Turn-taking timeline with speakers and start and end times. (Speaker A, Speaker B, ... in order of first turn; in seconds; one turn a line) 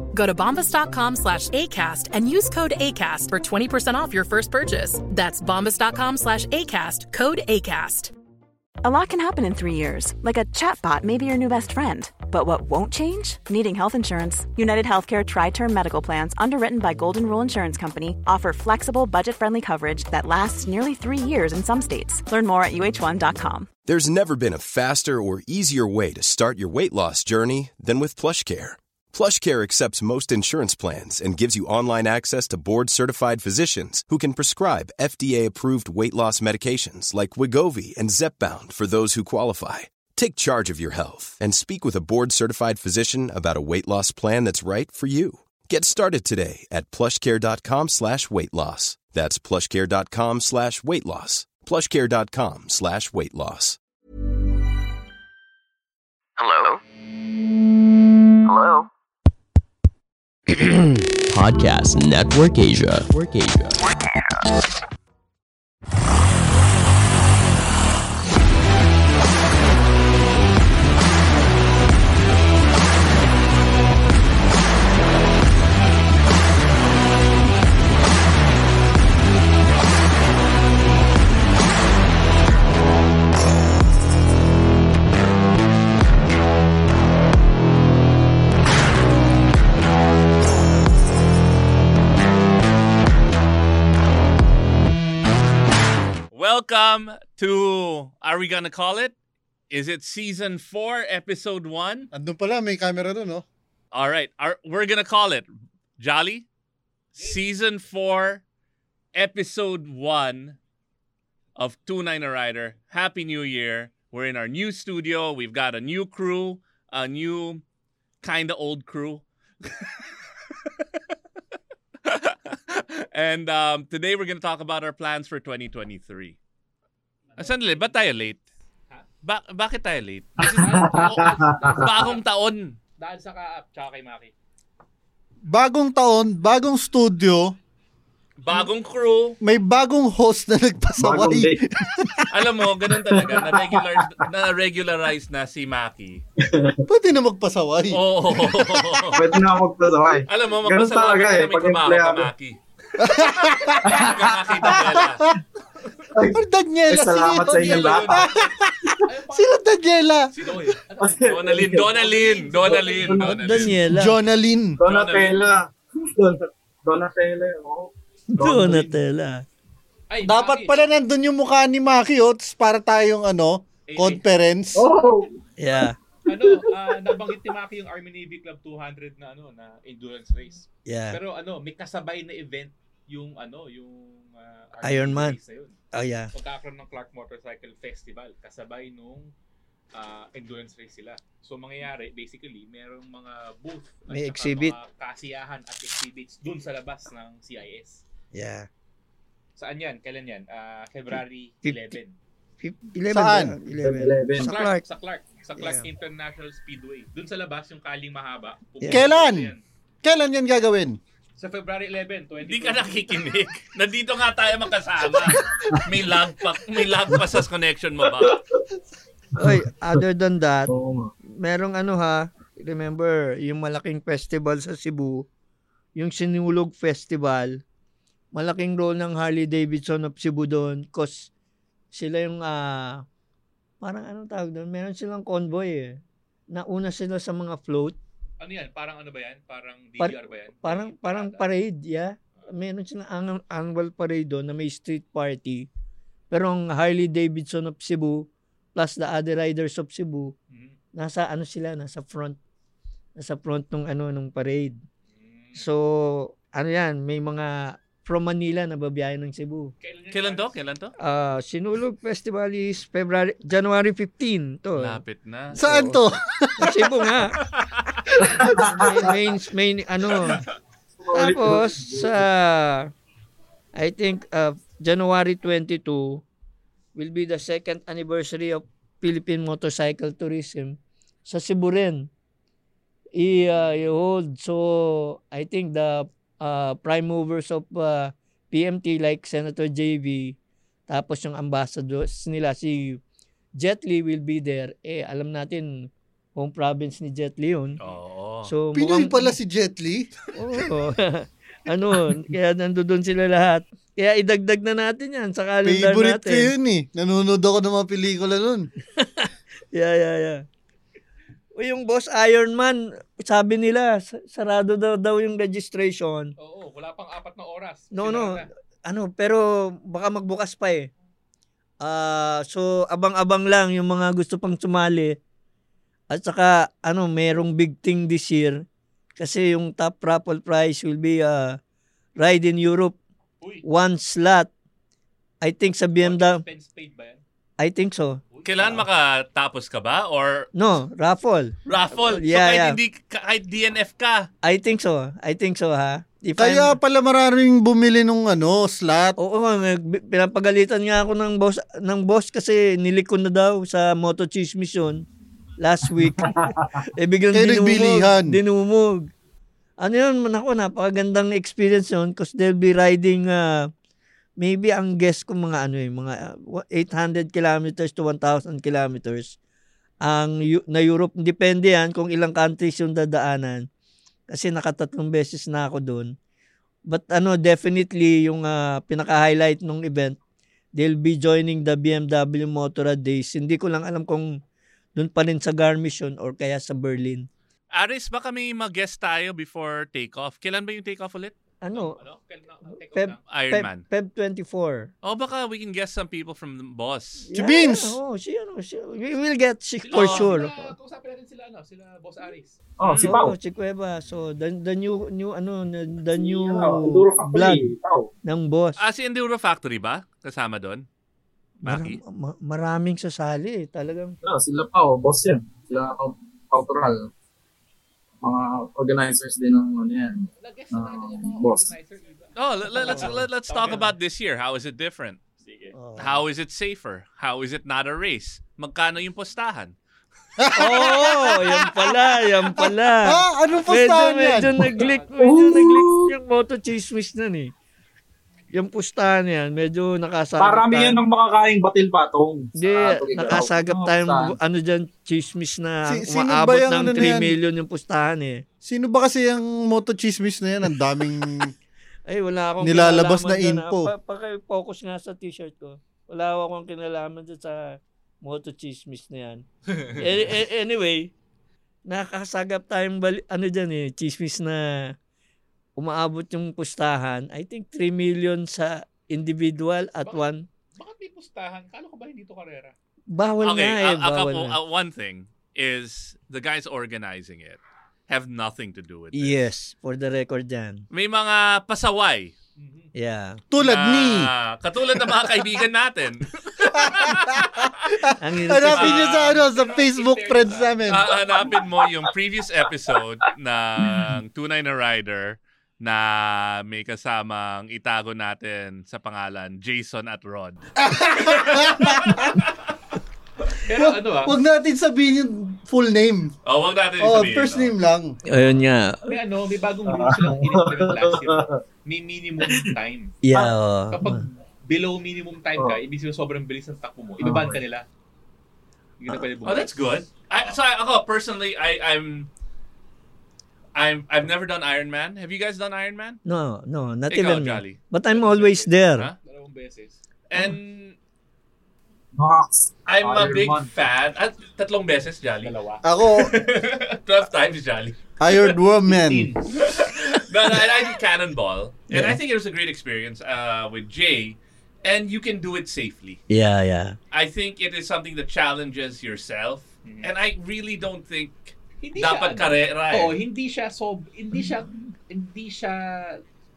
Speaker A: 0.1-8.1
Speaker B: 8.8-23.7
Speaker C: 23.8-53.8
Speaker D: 61.3-63.8
Speaker E: 96.3-99.1
Speaker E: 99.7-102.1
Speaker F: 102.1-103.4
Speaker E: 103.9-105.5
Speaker E: 106.0-106.5
Speaker G: 107.2-107.4
Speaker E: 107.2-108.4
Speaker E: 109.1-110.6
Speaker E: 111.5-117.6
Speaker E: 118.2-119.9
Speaker E: 122.0-126.4
Speaker G: 127.3-127.9
Speaker E: 127.4-128.4
Speaker E: 129.2-132.8
Speaker H: 130.4-131.8
Speaker G: 130.4-132.2
Speaker G: 133.0-134.3
Speaker F: 135.5-137.5
Speaker E: 138.4-139.4
Speaker F: 139.4-142.2
Speaker H: 141.0-141.6
Speaker E: 142.3-146.2
Speaker H: 143.1-144.2
Speaker H: 146.4-146.8
Speaker F: 146.8-148.7
Speaker E: 147.9-149.3
Speaker H: 148.9-152.3
Speaker E: 150.2-152.6
Speaker F: 153.0-154.1
Speaker H: 153.8-154.9
Speaker E: 153.8-155.3
Speaker F: 154.7-155.2
Speaker H: 156.1-158.3
Speaker F: 156.3-160.3
Speaker G: 157.5-163.8
Speaker E: 157.7-158.2
Speaker H: 161.0-161.9
Speaker E: 161.2-163.8
Speaker H: 162.6-163.5
Speaker I: 163.2-164.2
Speaker F: 163.9-164.8
Speaker H: 164.8-169.0
Speaker E: 164.8-165.4
Speaker I: 168.4-169.4
Speaker G: 170.1-170.8
Speaker F: 170.2-174.8
Speaker G: 173.9-174.3
Speaker H: 174.7-175.3
Speaker I: 175.6-176.0
Speaker G: 176.3-185.8
Speaker H: 176.3-177.0
Speaker I: 180.8-181.2
Speaker I: 184.8-185.4
Speaker I: 185.9-186.3
Speaker G: 186.3-189.3
Speaker G: 189.9-198.0
Speaker I: 194.1-194.8
Speaker I: 198.3-198.7
Speaker G: 199.6-202.1
Speaker I: 201.6-202.0
Speaker I: 202.6-204.8
Speaker F: 203.1-203.5
Speaker H: 203.8-204.5
Speaker G: 204.4-209.6
Speaker I: 205.6-205.9
Speaker F: 208.8-209.5
Speaker F: 210.0-211.0
Speaker G: 211.4-213.4
Speaker E: 212.4-218.4
Speaker H: 217.1-217.4
Speaker H: 218.1-218.6
Speaker H: 219.3-220.0
Speaker I: 219.4-220.7
Speaker H: 220.7-221.1
Speaker I: 221.3-225.2
Speaker I: 225.9-227.6
Speaker I: 228.3-231.3
Speaker I: 231.9-233.0
Speaker I: 233.8-236.0
Speaker I: 236.5-238.0
Speaker G: 238.4-241.5
Speaker I: 240.0-245.7
Speaker I: 246.3-250.3
Speaker G: 250.5-250.8
Speaker I: 250.9-252.4
Speaker I: 253.2-254.8
Speaker G: 255.1-255.7
Speaker I: 255.6-259.7
Speaker G: 259.8-260.5
Speaker E: 260.1-260.9
Speaker I: 261.0-265.0
Speaker E: 264.8-265.6
Speaker I: 265.5-266.0
Speaker F: 265.5-267.1
Speaker I: 266.6-267.4
Speaker E: 267.5-268.0
Speaker H: 268.2-269.3
Speaker I: 268.5-270.4
Speaker H: 271.0-272.3
Speaker I: 271.1-272.9
Speaker I: 273.8-276.2
Speaker I: 276.9-282.1
Speaker I: 283.2-290.4
Speaker I: 290.9-293.0
Speaker I: 293.6-297.8
Speaker E: 297.8-298.5
Speaker I: 298.4-299.3
Speaker F: 298.7-300.1
Speaker I: 300.3-306.5
Speaker F: 305.6-308.7
Speaker I: 308.9-310.4
Speaker I: 311.5-316.3
Speaker G: 316.4-318.5
Speaker I: 317.9-320.9
Speaker I: 321.8-325.2
Speaker I: 326.1-328.6
Speaker I: 329.2-331.6
Speaker I: 332.2-333.0
Speaker I: 333.6-334.5
Speaker I: 335.4-336.4
Speaker G: 336.0-337.2
Speaker I: 337.6-338.8
Speaker G: 338.3-338.8
Speaker E: 338.4-340.5
Speaker I: 340.6-342.8
Speaker E: 341.7-344.3
Speaker I: 344.4-346.8
Speaker F: 346.4-349.2
Speaker I: 349.2-355.1
Speaker I: 355.6-359.1
Speaker H: 356.1-356.8
Speaker F: 357.3-358.3
Speaker I: 359.8-363.7
Speaker I: 364.4-369.4
Speaker I: 370.0-373.7
Speaker I: 374.3-376.1
Speaker I: 376.9-380.2
Speaker I: 380.7-384.4
Speaker I: 384.9-387.3
Speaker E: 387.7-391.3
Speaker I: 391.6-392.0
Speaker G: 391.7-393.2
Speaker I: 392.7-394.9
Speaker E: 393.3-393.8
Speaker E: 395.0-397.3
Speaker I: 397.3-400.7
Speaker F: 397.3-398.0
Speaker G: 399.8-402.6
Speaker H: 402.8-403.3
Speaker E: 402.8-403.2
Speaker I: 403.0-407.6
Speaker H: 406.1-408.1
Speaker I: 408.2-408.8
Speaker E: 408.8-410.9
Speaker E: 411.6-412.0
Speaker I: 411.6-414.2
Speaker H: 414.2-417.1
Speaker H: 418.2-421.7
Speaker G: 420.4-423.9
Speaker E: 422.4-425.2
Speaker I: 422.8-423.3
Speaker G: 425.4-425.7
Speaker I: 425.7-426.2
Speaker E: 426.0-429.7
Speaker F: 430.4-434.8
Speaker I: 430.5-437.5
Speaker G: 434.7-435.4
Speaker H: 435.2-436.1
Speaker I: 438.5-441.0
Speaker H: 440.4-444.4
Speaker I: 442.5-448.4
Speaker F: 445.9-447.3
Speaker F: 448.6-451.5
Speaker I: 452.1-459.4
Speaker F: 452.6-453.9
Speaker I: 459.9-461.1
Speaker I: 461.9-464.9
Speaker I: 465.8-470.4
Speaker G: 470.0-472.7
Speaker I: 473.1-474.6
Speaker E: 473.4-479.4
Speaker I: 479.1-480.8
Speaker E: 480.9-482.3
Speaker G: 482.6-482.9
Speaker I: 482.9-483.4
Speaker F: 483.5-484.3
Speaker E: 483.6-488.0
Speaker F: 486.7-491.1
Speaker I: 488.2-489.0
Speaker E: 488.7-489.3
Speaker G: 488.9-491.8
Speaker E: 490.9-500.7
Speaker F: 500.8-502.4
Speaker E: 501.2-502.5
Speaker G: 503.6-504.4
Speaker F: 503.7-506.3
Speaker E: 506.4-507.7
Speaker F: 507.0-508.1
Speaker I: 508.3-509.1
Speaker G: 509.1-513.2
Speaker H: 509.9-511.6
Speaker H: 512.4-512.7
Speaker I: 513.2-514.2
Speaker G: 513.9-517.8
Speaker H: 517.2-517.6
Speaker G: 519.0-520.0
Speaker E: 519.4-522.3
Speaker E: 523.7-526.2
Speaker I: 526.2-529.1
Speaker E: 527.1-527.8
Speaker G: 528.0-530.0
Speaker E: 530.3-531.0
Speaker H: 532.1-533.7
Speaker E: 532.9-538.5
Speaker G: 535.4-535.8
Speaker F: 535.8-536.3
Speaker F: 538.2-539.3
Speaker G: 538.9-539.5
Speaker E: 539.5-546.2
Speaker I: 541.9-542.2
Speaker I: 546.3-547.0
Speaker E: 547.1-553.1
Speaker G: 549.8-550.1
Speaker G: 551.8-556.2